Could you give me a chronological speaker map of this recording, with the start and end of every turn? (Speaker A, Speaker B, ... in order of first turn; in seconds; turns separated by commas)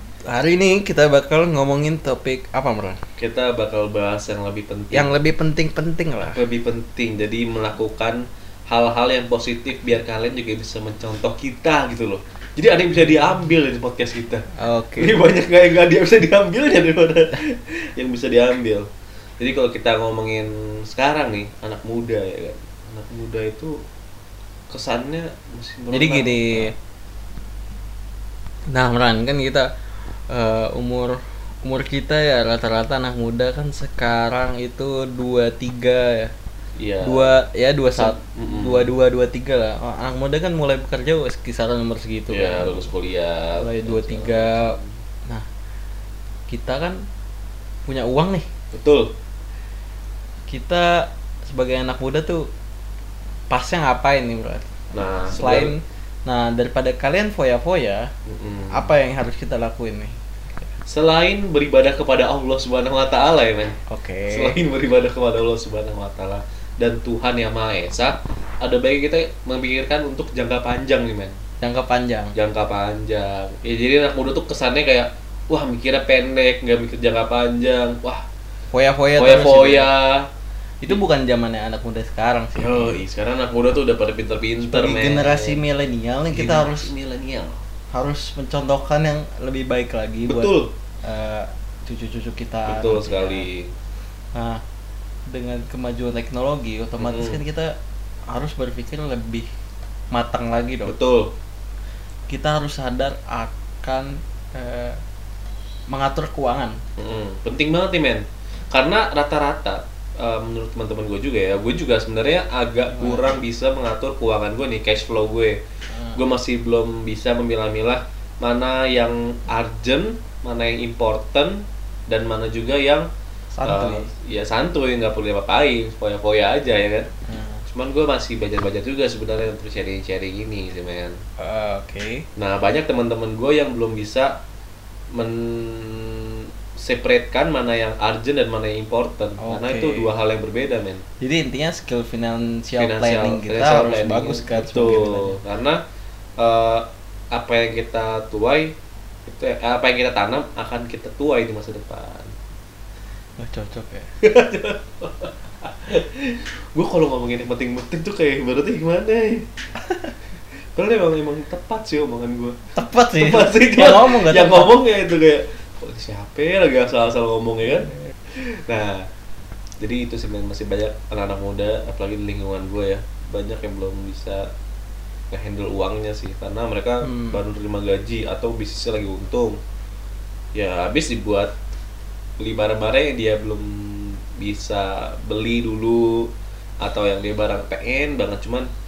Speaker A: 0.2-3.0, Speaker B: 3.2-5.1, Speaker A: 4.9-6.4, Speaker B: 6.2-18.9, Speaker A: 14.6-15.2, Speaker B: 19.4-23.8, Speaker B: 24.7-26.7, Speaker A: 25.9-26.7, Speaker A: 28.7-29.7, Speaker A: 30.3-36.3, Speaker B: 36.8-37.4, Speaker A: 37.0-42.9, Speaker B: 37.9-38.9, Speaker B: 42.3-45.0, Speaker A: 43.6-45.5, Speaker A: 46.5-47.0, Speaker A: 47.9-48.5, Speaker B: 48.7-49.1, Speaker A: 50.5-52.5, Speaker A: 53.5-58.1, Speaker B: 54.9-55.7, Speaker B: 58.2-58.9, Speaker A: 58.7-60.7, Speaker B: 60.9-71.4, Speaker A: 63.9-64.6, Speaker A: 71.6-72.3, Speaker B: 72.3-78.2, Speaker A: 78.7-79.9, Speaker B: 79.2-80.3, Speaker A: 80.8-83.0, Speaker B: 82.5-85.6, Speaker A: 84.6-86.9, Speaker B: 86.3-87.6, Speaker A: 87.9-93.5, Speaker B: 90.2-90.7, Speaker B: 92.7-93.7, Speaker A: 94.3-94.6, Speaker A: 95.3-97.7, Speaker B: 97.0-97.4, Speaker A: 98.3-99.5, Speaker A: 100.1-101.0, Speaker B: 100.8-101.3, Speaker A: 102.3-105.0, Speaker A: 105.9-106.8, Speaker B: 107.0-115.6, Speaker A: 112.9-113.4, Speaker A: 115.9-116.2, Speaker B: 116.1-123.1, Speaker A: 123.5-124.1, Speaker B: 123.6-127.1, Speaker A: 127.3-127.6, Speaker B: 127.7-131.2, Speaker A: 131.4-132.2, Speaker B: 132.3-134.4, Speaker B: 135.1-141.0, Speaker A: 139.4-140.1, Speaker A: 141.2-145.4, Speaker B: 142.8-145.8, Speaker B: 146.4-152.3, Speaker A: 153.4-154.1, Speaker B: 154.2-159.5, Speaker B: 160.7-162.6, Speaker A: 162.8-164.7, Speaker B: 163.1-169.1, Speaker B: 169.8-174.5, Speaker B: 175.3-179.6, Speaker A: 177.0-177.4, Speaker B: 180.5-181.5, Speaker B: 182.4-188.7